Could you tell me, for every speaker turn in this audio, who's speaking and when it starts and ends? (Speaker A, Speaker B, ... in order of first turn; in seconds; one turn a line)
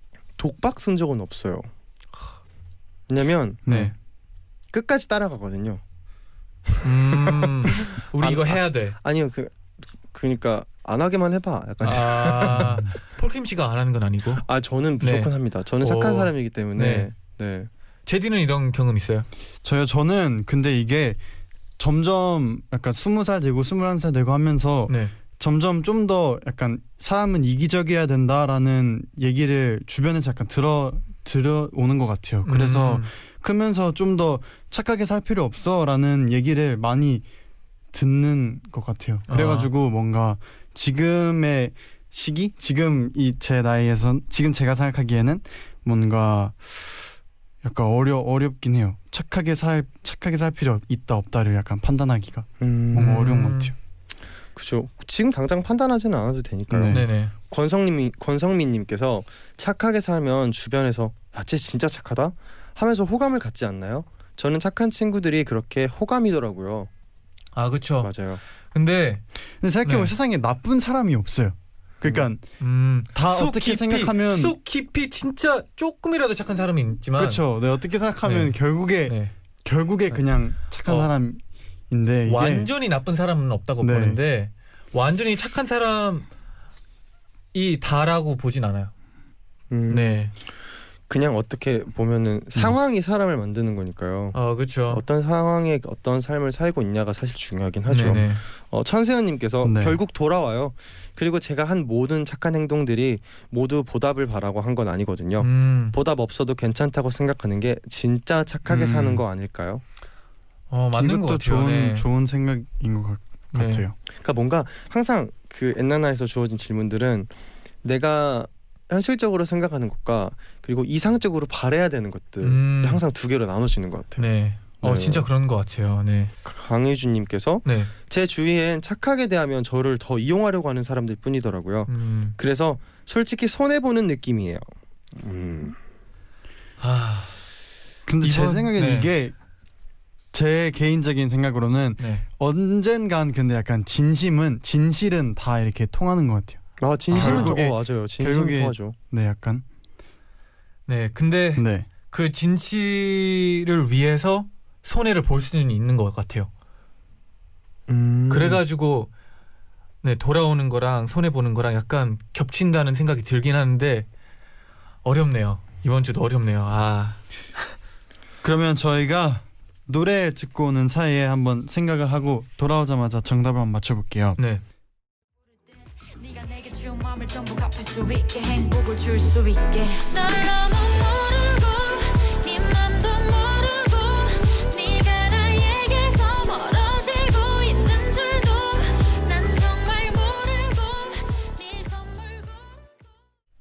Speaker A: 0.4-1.7
Speaker A: 3.1-3.6
Speaker B: 3.6-3.9
Speaker C: 3.7-3.9
Speaker A: 4.7-5.8
Speaker C: 6.8-8.9
Speaker A: 7.4-9.6
Speaker A: 10.1-12.8
Speaker C: 11.8-14.4
Speaker B: 12.5-12.9
Speaker A: 14.4-17.7
Speaker C: 15.0-17.1
Speaker C: 18.1-19.3
Speaker B: 19.6-21.2
Speaker B: 21.8-37.2
Speaker C: 24.9-25.1
Speaker C: 32.4-33.1
Speaker B: 37.9-47.0
Speaker C: 39.3-39.7
Speaker B: 47.6-53.7
Speaker A: 52.6-53.2
Speaker C: 52.9-53.7
Speaker A: 54.5-66.9
Speaker B: 56.7-57.0
Speaker C: 56.9-57.3
Speaker C: 67.5-68.1
Speaker A: 68.0-68.4
Speaker C: 68.7-69.2
Speaker B: 69.6-72.4
Speaker C: 69.8-70.1
Speaker A: 72.0-72.3
Speaker C: 72.6-77.4
Speaker B: 73.1-74.5
Speaker B: 77.2-82.7
Speaker C: 78.2-79.3
Speaker C: 80.8-81.1
Speaker C: 82.3-86.3
Speaker B: 83.8-84.2
Speaker C: 87.5-88.9
Speaker A: 89.7-90.2
Speaker C: 89.9-90.3
Speaker A: 91.1-94.3
Speaker C: 94.3-95.0
Speaker A: 94.9-109.8
Speaker C: 97.9-98.4
Speaker B: 99.6-100.0
Speaker C: 105.4-106.0
Speaker B: 108.7-109.2
Speaker C: 110.7-112.1
Speaker B: 111.0-113.9
Speaker C: 113.5-113.8
Speaker A: 114.2-117.3
Speaker A: 117.8-124.2
Speaker C: 122.4-123.0
Speaker C: 124.2-126.3
Speaker A: 124.8-125.3
Speaker A: 126.4-134.6
Speaker C: 127.6-127.9
Speaker C: 131.9-132.4
Speaker A: 135.2-135.8
Speaker C: 136.8-137.4
Speaker B: 138.1-139.3
Speaker C: 138.2-139.1
Speaker B: 140.3-149.6
Speaker C: 142.0-142.2
Speaker A: 146.8-148.9
Speaker C: 147.1-147.6
Speaker C: 150.9-156.5
Speaker B: 151.6-151.9
Speaker A: 157.9-158.6
Speaker C: 158.3-159.1
Speaker C: 160.0-164.1
Speaker C: 165.0-167.7
Speaker B: 168.4-174.4
Speaker C: 174.4-174.6
Speaker D: 175.9-192.8